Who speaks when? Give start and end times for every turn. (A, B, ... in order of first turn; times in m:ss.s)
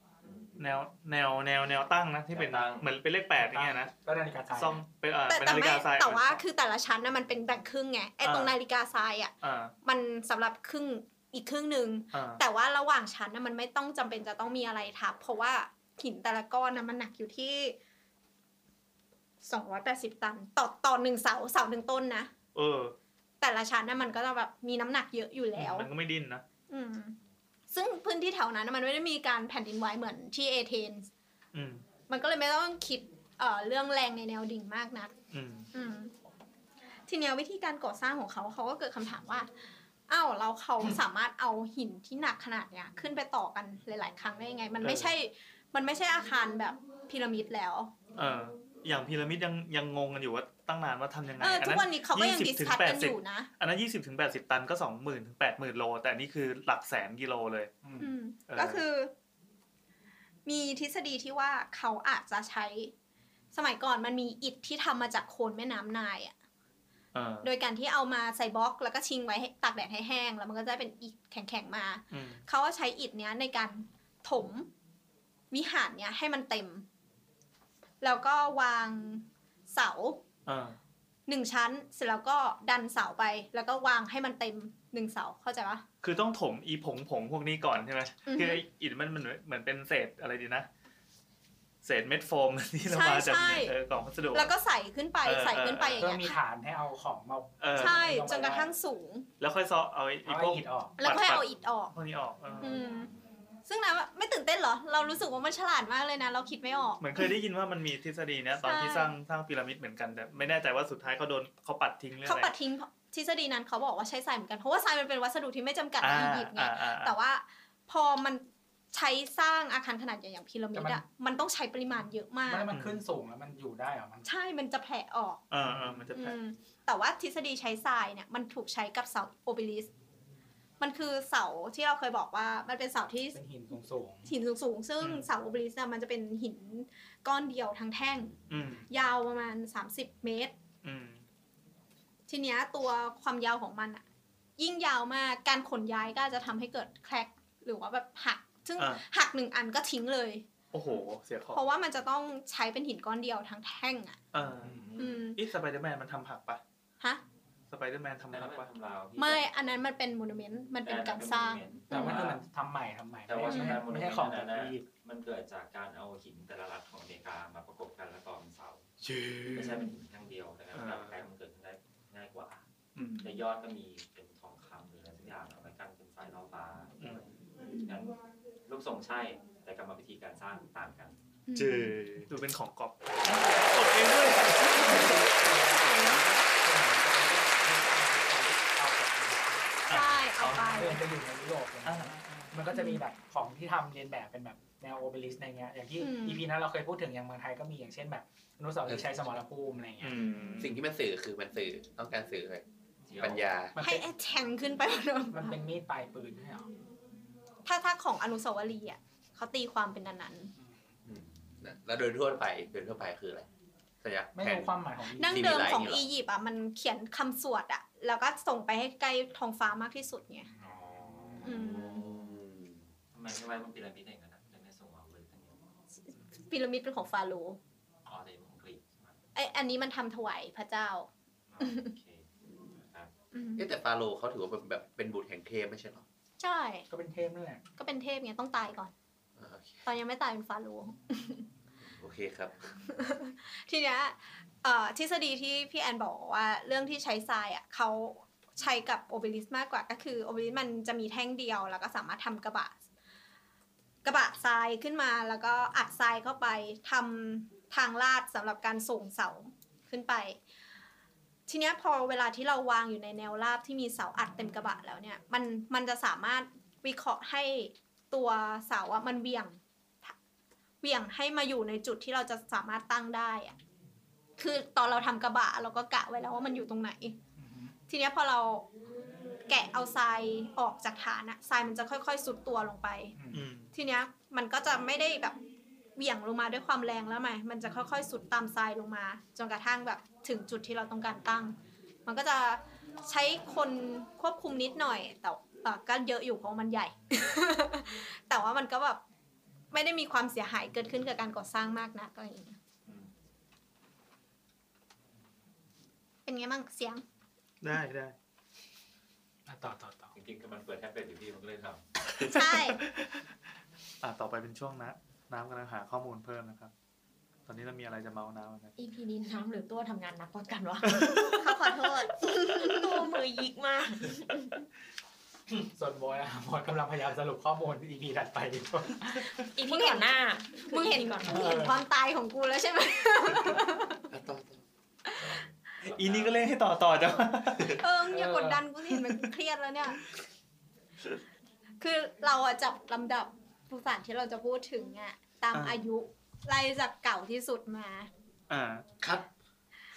0:00.2-0:00.7 A
0:00.6-0:03.9 B
0:02.3-0:02.9 A
0:03.4-0:04.8 C
0:04.5-0:06.4 B
0:05.3-0:09.3 D
0:08.2-0:08.5 B
0:09.4-0:09.7 B
0:09.8-0:17.8 D
0:12.1-0:12.4 B
0:19.4-0:22.3 D
0:22.5-0:22.9 B
0:23.4-0:25.9 D
0:25.6-0:26.4 B
0:26.7-0:27.2 D
0:27.7-0:31.1 D
0:31.5-0:31.8 B
0:32.1-0:35.1 D
0:35.3-0:35.7 B
0:35.7-0:36.1 D
0:37.1-0:39.5 D
0:40.1-0:47.9 D
0:44.8-0:45.1 B
0:48.2-0:57.7 B
0:51.4-0:53.5 D
0:57.8-0:58.1 C
0:58.0-0:59.1 D
0:58.5-0:58.8 B
1:00.4-1:02.9 D
1:03.5-1:06.3 D
1:07.1-1:07.5 B
1:07.4-1:14.7 D
1:12.1-1:12.4 B
1:15.5-1:16.8 D
1:18.0-1:20.2 D
1:20.4-1:20.8 B
1:21.3-1:25.8 D
1:26.0-1:30.7 B
1:28.2-1:28.6 D
1:31.8-1:34.5 B
1:32.8-1:33.7 D
1:34.3-1:36.4 D
1:35.2-1:36.2 B
1:36.0-1:38.7 C
1:37.6-1:38.1 B
1:37.7-1:39.3 D
1:39.4-1:42.8 B
1:40.2-1:41.0 C
1:41.0-1:41.9 D
1:42.6-1:43.1 D
1:43.6-1:47.3 D
1:47.0-1:52.5 B
1:48.6-1:49.1 D
1:52.2-2:02.7 D
1:56.0-1:57.2 B
2:00.7-2:01.0 C
2:02.5-2:04.3 C
2:02.7-2:03.0 B
2:04.2-2:05.4 D
2:05.5-2:06.4 B
2:06.1-2:09.9 D
2:10.8-2:13.4 D
2:13.3-2:14.3 C
2:14.2-2:18.4 D
2:18.5-2:18.9 B
2:18.9-2:20.5 D
2:20.8-2:21.2 B
2:22.3-2:24.0 D
2:24.6-2:30.4 D
2:30.7-2:31.6 B
2:31.5-2:34.2 D
2:34.3-2:34.8 B
2:34.6-2:34.9 C
2:34.6-2:35.2 A
2:35.0-2:35.4 D
2:35.3-2:36.6 B
2:37.7-2:38.7 B
2:38.3-2:39.5 A
2:39.2-2:42.2 D
2:40.8-2:42.4 A
2:41.9-2:44.9 C
2:43.3-2:48.9 A
2:43.5-2:43.8 D
2:49.1-2:49.6 B
2:49.5-2:52.6 A
2:50.7-2:51.2 B
2:53.0-2:53.3 D
2:53.2-2:58.2 A
2:57.7-2:57.9 D
2:58.7-3:01.2 A
3:01.5-3:02.0 D
3:01.6-3:05.2 B
3:03.3-3:03.6 A
3:04.7-3:09.8 C
3:04.7-3:06.2 D
3:09.9-3:11.0 B
3:09.9-3:11.0 D
3:10.7-3:20.2 C
3:11.8-3:12.5 B
3:12.7-3:13.0 D
3:16.0-3:16.4 D
3:18.9-3:19.2 E
3:20.0-3:20.8 B
3:20.2-3:20.8 D
3:20.6-3:22.6 E
3:23.1-3:23.5 A
3:23.2-3:23.8 E
3:23.7-3:24.0 C
3:23.8-3:25.6 D
3:25.3-3:26.7 C
3:27.6-3:30.5 D
3:31.0-3:33.5 E
3:34.0-3:36.0 E
3:34.3-3:35.6 C
3:35.2-3:40.5 D
3:40.6-3:42.1 A
3:41.4-3:42.0 D
3:41.4-3:42.9 E
3:43.1-3:45.6 A
3:46.5-3:47.6 D
3:48.0-3:49.2 A
3:49.3-3:51.1 D
3:51.5-3:53.1 A
3:51.6-3:51.9 D
3:53.3-3:53.6 D
3:53.6-3:56.0 E
3:56.4-3:56.8 D
3:56.9-3:57.6 C
3:57.8-3:58.9 D
3:59.4-3:59.8 E
3:59.8-4:01.5 D
4:01.8-4:02.8 E
4:02.8-4:12.8 D
4:14.0-4:20.4 D
4:21.5-4:30.1 D
4:30.8-4:33.6 D
4:34.4-4:37.2 D
4:37.4-4:37.7 C
4:37.9-4:38.7 D
4:39.5-4:43.1 D
4:43.1-4:43.5 C
4:43.3-4:43.7 B
4:43.7-4:45.4 D
4:46.0-4:59.0 D
4:59.7-5:02.6 D
5:02.8-5:03.1 A
5:06.2-5:07.0 D
5:07.6-5:08.1 B
5:09.5-5:10.1 C
5:10.1-5:11.8 A
5:12.2-5:12.8 D
5:12.2-5:13.2 B
5:14.0-5:16.7 B
5:17.5-5:18.7 B
5:18.8-5:21.5 F
5:20.8-5:21.5 B
5:21.0-5:22.7 D
5:22.2-5:24.4 F
5:22.6-5:22.8 B
5:25.6-5:29.3 C
5:29.5-5:31.6 F
5:29.6-5:34.0 D
5:31.4-5:31.8 C
5:34.1-5:34.6 E
5:35.2-5:36.4 A
5:35.9-5:37.8 B
5:37.8-5:40.0 D
5:38.1-5:38.6 C
5:41.8-5:48.1 D
5:45.5-5:45.8 B
5:48.5-5:48.8 B
5:49.0-5:49.3 E